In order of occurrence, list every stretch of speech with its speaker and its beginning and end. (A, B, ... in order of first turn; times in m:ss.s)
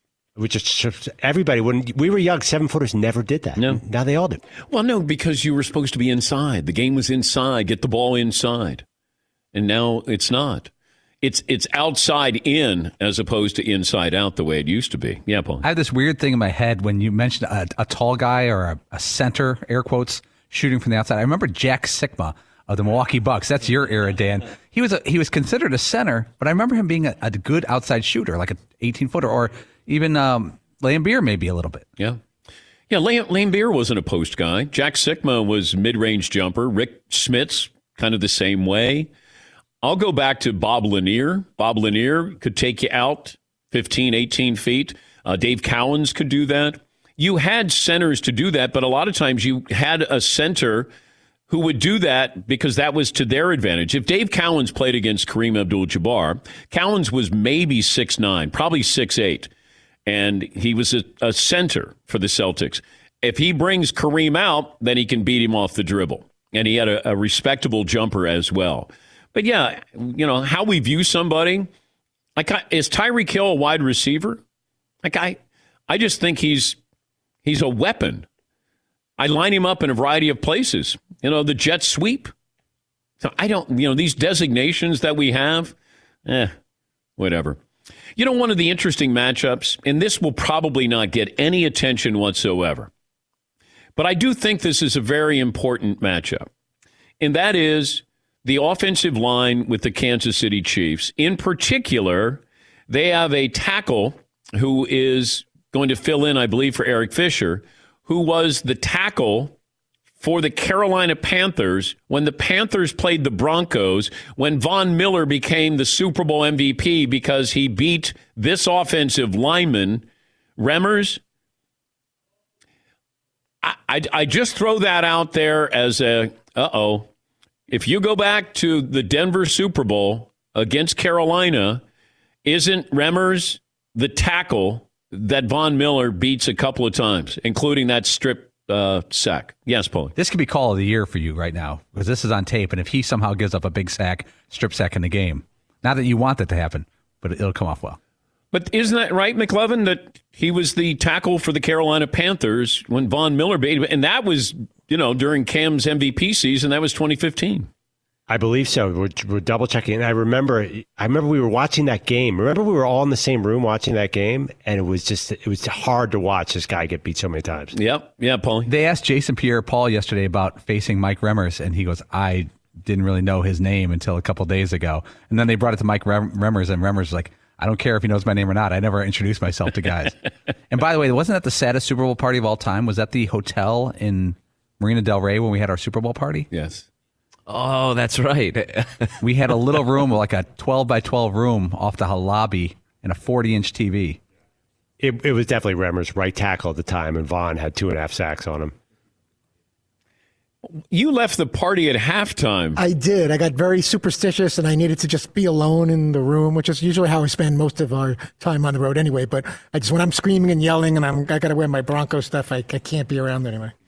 0:00.4-0:04.4 A
0:03.6-0:03.8 B
0:04.7-0:08.8 B
0:09.5-0:10.7 B
0:11.2-0:15.6 B
0:15.6-0:31.9 C
0:32.9-0:39.1 B
0:39.8-0:50.9 B
0:51.5-0:59.5 B
1:00.0-1:11.7 B
1:12.4-1:14.4 B
1:15.0-1:16.8 B
1:17.4-1:18.3 B
1:19.2-1:22.3 B
1:23.2-1:25.7 B
1:26.2-1:26.5 B
1:27.2-1:27.6 B
1:28.2-1:32.9 B
1:34.0-1:36.5 B
1:37.2-1:49.5 B
1:50.2-2:00.0 B
2:00.6-2:01.2 B
2:03.6-2:07.1 B
2:07.7-2:11.8 B
2:12.4-2:20.1 B
2:20.2-2:28.0 C
2:28.5-2:37.7 B
2:38.3-2:47.7 A
2:47.7-2:48.7 B
2:48.6-3:00.2 C
3:00.7-3:06.5 C
3:06.5-3:06.9 B
3:07.5-3:09.8 D
3:09.2-3:14.2 C
3:15.0-3:18.7 A
3:20.6-3:22.8 B
3:22.8-3:33.7 E